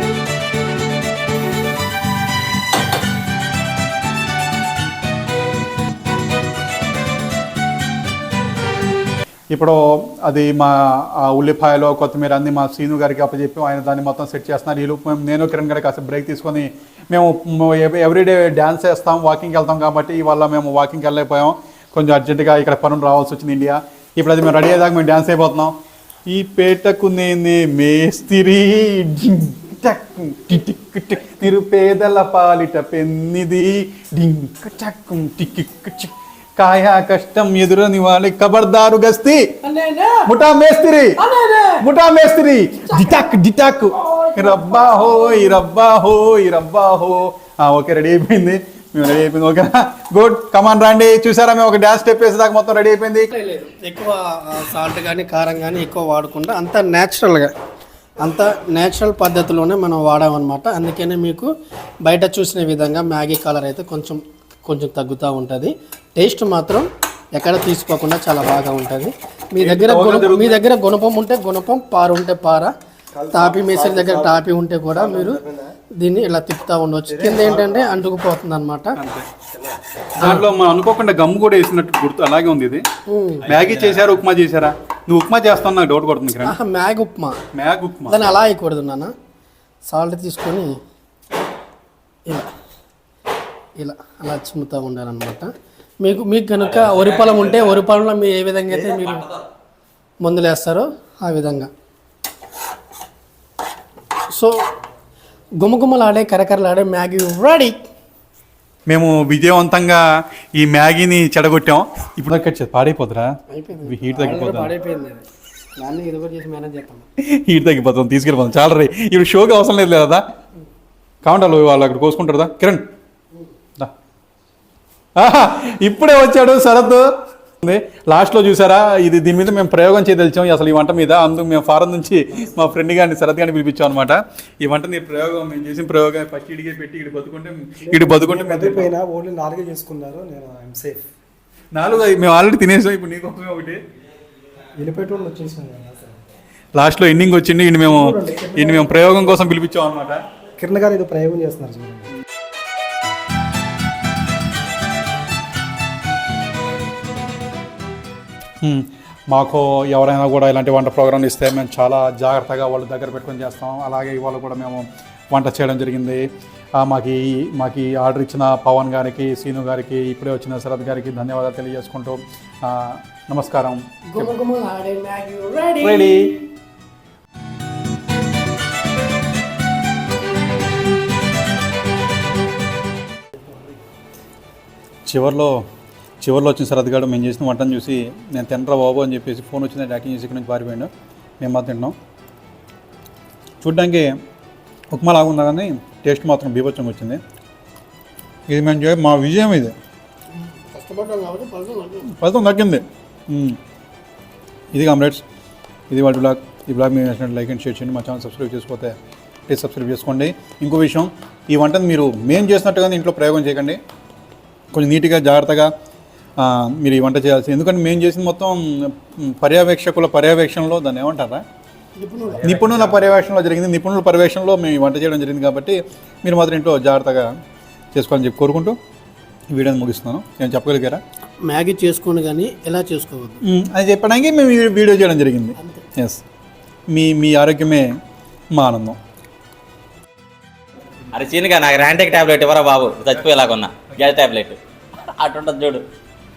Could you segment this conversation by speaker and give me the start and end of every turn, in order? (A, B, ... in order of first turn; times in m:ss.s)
0:09.5-0:25.7 A
0:26.3-0:39.5 A
0:39.6-0:40.3 B
0:40.2-0:41.2 A
0:41.2-0:41.8 B
0:41.8-0:53.3 A
0:42.9-0:43.4 B
0:44.0-0:45.6 B
0:53.3-0:57.5 B
0:58.2-1:01.5 B
1:02.0-1:12.7 B
1:09.6-1:10.6 A
1:13.1-1:14.4 C
1:13.3-1:15.4 B
1:15.0-1:15.7 C
1:16.0-1:19.0 B
1:17.1-1:18.0 C
1:19.0-1:19.3 A
1:20.2-1:22.8 A
1:23.1-1:23.5 B
1:23.4-1:26.6 A
1:23.5-1:24.1 D
1:26.4-1:27.4 B
1:27.5-1:28.3 A
1:28.1-1:29.1 B
1:29.9-1:30.8 B
1:33.8-1:39.2 B
1:36.6-1:37.8 D
1:38.7-1:39.4 D
1:40.2-1:41.7 B
1:44.3-1:44.6 B
1:45.6-1:47.8 B
1:48.9-1:50.0 A
1:50.5-1:54.7 A
1:53.5-1:55.2 B
1:55.8-1:57.0 B
1:57.2-2:00.2 A
2:01.2-2:02.8 A
2:05.2-2:07.1 A
2:07.6-2:18.9 A
2:17.8-2:21.0 C
2:21.7-2:23.8 A
2:24.8-2:26.2 C
2:26.8-2:30.2 A
2:27.8-2:29.4 C
2:30.6-2:32.1 C
2:38.6-2:46.2 A
2:46.8-2:54.3 A
2:54.1-2:56.4 B
2:55.8-2:56.4 A
3:05.0-3:05.6 A
3:06.2-3:10.9 A
3:11.4-3:12.0 A
3:13.6-3:14.2 A
3:14.9-3:17.2 A
3:18.5-3:19.8 A
3:20.3-3:22.1 B
3:22.0-3:23.6 A
3:24.7-3:25.2 A
3:25.9-3:29.0 A
3:29.5-3:33.8 A
3:34.7-3:35.7 A
3:36.4-3:41.4 A
3:42.0-3:42.5 B
3:42.4-3:47.3 A
3:42.4-3:43.1 D
3:47.9-3:48.8 A
3:49.5-3:51.0 A
3:51.4-3:53.4 B
3:53.4-3:56.2 A
3:56.9-3:57.9 A
3:58.5-3:59.0 A
4:01.1-4:04.6 D
4:05.2-4:05.8 D